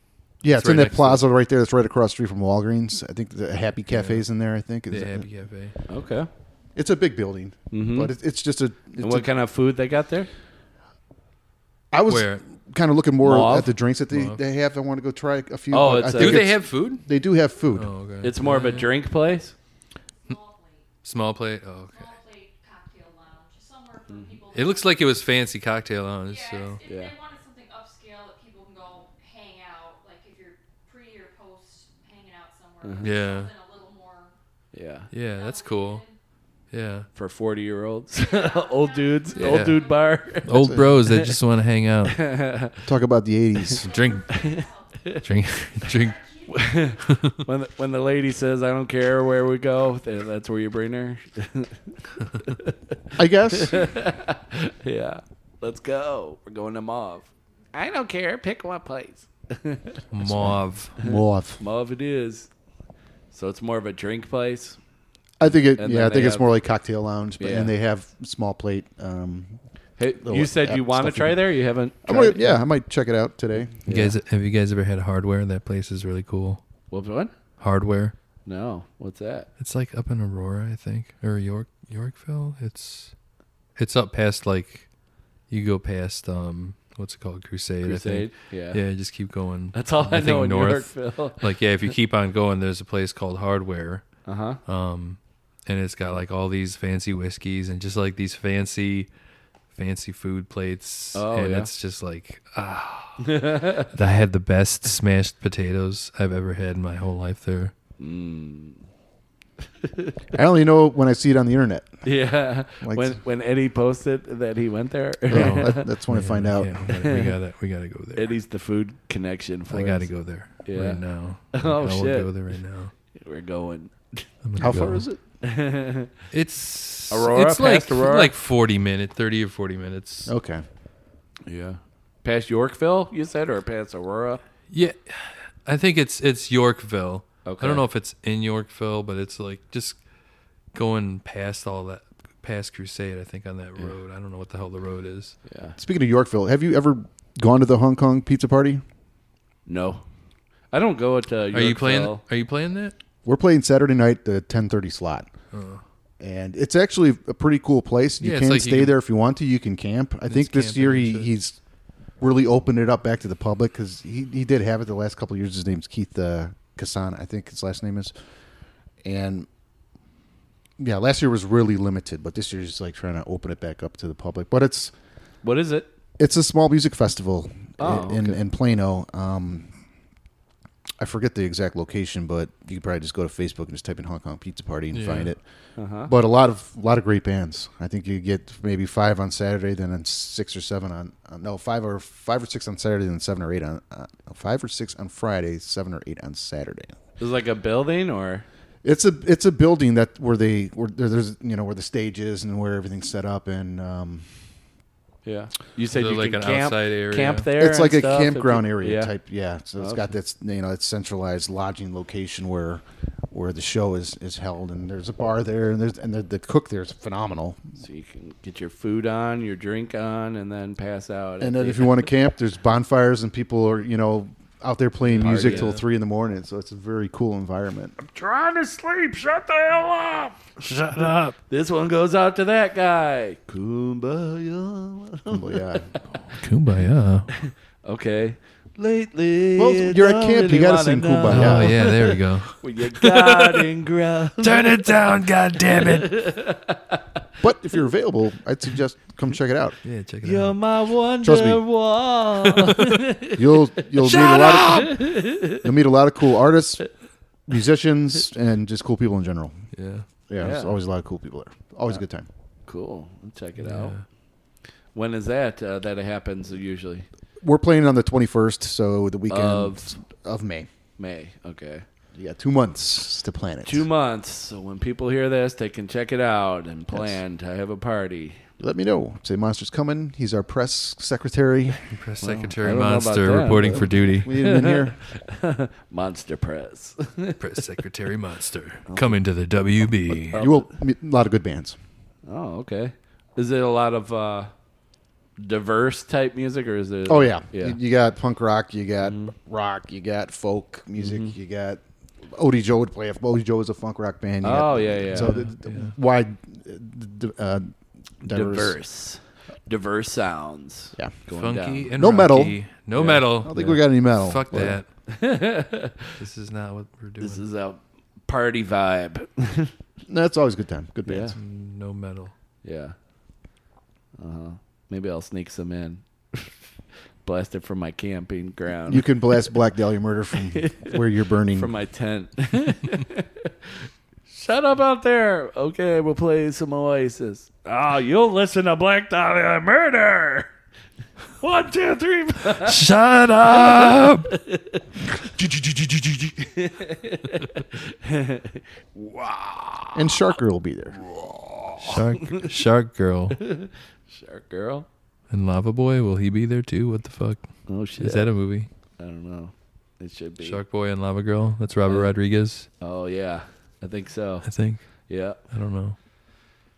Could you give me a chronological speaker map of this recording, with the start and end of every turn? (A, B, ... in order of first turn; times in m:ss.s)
0:00.4-0:05.3 A
0:00.5-0:01.2 B
0:03.9-0:04.2 B
0:04.9-0:05.8 B
0:05.9-0:06.3 C
0:06.8-0:09.3 A
0:07.7-0:08.1 C
0:09.0-0:10.3 C
0:11.9-0:17.9 A
0:12.1-0:12.4 B
0:13.2-0:13.7 C
0:14.1-0:14.4 B
0:15.7-0:16.4 C
0:16.2-0:17.0 B
0:17.7-0:18.9 B
0:18.2-0:19.5 C
0:20.2-0:20.8 D
0:21.0-0:22.1 B
0:21.9-0:25.0 D
0:24.1-0:24.4 C
0:24.5-0:26.8 B
0:26.2-0:34.3 D
0:26.8-0:27.1 C
0:32.8-0:33.1 C
0:33.0-0:33.5 B
0:34.7-0:35.1 C
0:35.1-0:36.0 B
0:35.3-0:36.2 D
0:36.7-0:37.1 B
0:37.1-0:41.3 C
0:38.1-0:40.4 D
0:39.4-0:39.8 B
0:40.4-0:42.3 B
0:40.6-0:41.0 A
0:42.2-0:42.7 C
0:42.8-0:43.9 A
0:43.7-0:45.2 D
0:43.8-0:44.3 B
0:44.3-0:45.2 C
0:45.2-0:46.2 B
0:45.8-0:47.0 D
0:46.5-0:52.9 C
0:47.0-0:47.4 B
0:53.2-0:53.9 A
0:53.5-1:00.0 C
1:00.1-1:00.9 B
1:00.2-1:01.6 A
1:01.0-1:02.5 C
1:03.3-1:04.8 C
1:05.4-1:09.6 A
1:05.8-1:06.5 C
1:07.4-1:07.7 C
1:10.0-1:12.6 C
1:10.1-1:11.4 A
1:12.0-1:14.0 A
1:13.9-1:14.1 C
1:13.9-1:16.6 B
1:16.9-1:17.3 C
1:17.6-1:18.1 B
1:18.4-1:19.5 C
1:19.6-1:23.1 B
1:23.8-1:24.9 B
1:25.5-1:34.1 B
1:27.8-1:28.8 C
1:29.7-1:31.5 C
1:34.2-1:34.6 C
1:34.6-1:39.1 B
1:39.7-1:47.7 B
1:41.1-1:41.7 C
1:43.2-1:43.9 C
1:48.0-1:48.8 C
1:49.8-1:50.2 C
1:50.3-1:52.0 A
1:52.0-1:55.8 C
1:52.8-1:53.2 A
1:55.3-1:56.9 A
1:55.3-1:58.4 B
1:56.9-1:57.3 C
1:58.2-2:00.1 C
1:59.7-2:02.9 B
2:00.6-2:02.3 C
2:03.1-2:04.3 C
2:04.4-2:05.0 B
2:04.6-2:05.2 A
2:05.4-2:06.1 C
2:06.3-2:10.3 B
2:07.1-2:08.3 C
2:10.3-2:10.6 A
2:11.4-2:14.4 C
2:14.7-2:20.0 B
2:17.4-2:17.8 C
2:20.7-2:25.4 B
2:25.5-2:25.8 C
2:25.8-2:28.8 A
2:29.7-2:30.0 C
2:30.7-2:32.2 C
2:31.5-2:32.9 B
2:33.2-2:35.3 A
2:35.5-2:35.8 B
2:36.2-2:41.6 A
2:38.2-2:38.9 B
2:40.3-2:41.3 B
2:42.2-2:48.1 A
2:49.0-2:49.5 A
2:50.8-2:54.9 A
2:55.4-2:55.9 C
2:56.2-2:59.7 A
2:57.8-2:58.4 C
3:01.0-3:05.4 A
3:04.9-3:05.3 B
3:05.8-3:06.1 C
3:06.0-3:16.9 A
3:17.2-3:18.4 C
3:18.8-3:24.3 A
3:25.2-3:29.1 C
3:25.9-3:27.4 B
3:27.5-3:37.6 A
3:29.8-3:30.1 C
3:37.8-3:42.0 C
3:41.4-3:48.0 A
3:45.1-3:45.8 C
3:45.2-3:45.8 B
3:48.0-3:51.3 E
3:51.5-3:56.4 C
3:55.3-3:55.9 A
3:56.4-3:57.3 B
3:57.3-4:05.0 C
3:59.6-4:01.8 A
4:01.3-4:03.6 B
4:04.4-4:06.2 B
4:05.8-4:07.0 C
4:07.4-4:09.8 A
4:09.8-4:10.6 B
4:10.2-4:15.7 C
4:11.2-4:11.6 A
4:12.6-4:13.0 B
4:13.3-4:16.8 A
4:17.5-4:19.5 A
4:19.7-4:20.0 B
4:20.3-4:22.3 A
4:20.4-4:20.8 C
4:22.7-4:24.0 C
4:23.6-4:24.0 B
4:24.9-4:27.0 C
4:27.4-4:30.7 A
4:29.3-4:30.0 C
4:31.0-4:31.8 C
4:32.1-4:33.8 A
4:33.6-4:38.4 C
4:36.9-4:37.2 A
4:38.6-4:41.8 A
4:41.9-4:44.3 B
4:42.2-4:47.4 C
4:43.7-4:45.0 A
4:47.4-4:50.4 B
4:48.9-4:49.2 C
4:50.3-4:51.8 A
4:50.3-4:50.7 C
4:52.2-4:54.5 C
4:55.4-4:57.8 C
4:57.1-5:08.8 A
4:59.0-4:59.3 C
5:01.0-5:01.3 C
5:04.4-5:05.4 C
5:05.1-5:05.9 B
5:08.2-5:11.9 C
5:11.3-5:14.9 B
5:12.0-5:12.6 A
5:12.9-5:13.8 C
5:13.4-5:14.8 A
5:14.5-5:16.1 C
5:16.2-5:17.4 B
5:17.2-5:19.7 C
5:20.1-5:21.3 A
5:21.0-5:21.4 C
5:21.3-5:22.3 B
5:22.6-5:22.9 C
5:24.2-5:26.6 C
5:27.2-5:29.1 C
5:28.9-5:31.7 A
5:30.5-5:33.7 C
5:34.3-5:37.6 C
5:37.6-5:40.5 E
5:41.4-5:42.7 E
5:42.6-5:44.3 B
5:43.6-5:45.2 C
5:45.3-5:46.3 E
5:46.4-5:49.7 C
5:49.9-5:51.0 A
5:51.8-5:53.4 B
5:51.8-5:52.5 C
5:53.4-5:54.9 C
5:55.3-5:58.7 B
5:57.7-5:58.3 C
5:59.0-6:00.6 C
6:00.4-6:02.7 B
6:01.9-6:02.1 C
6:02.8-6:05.4 C
6:04.4-6:06.0 B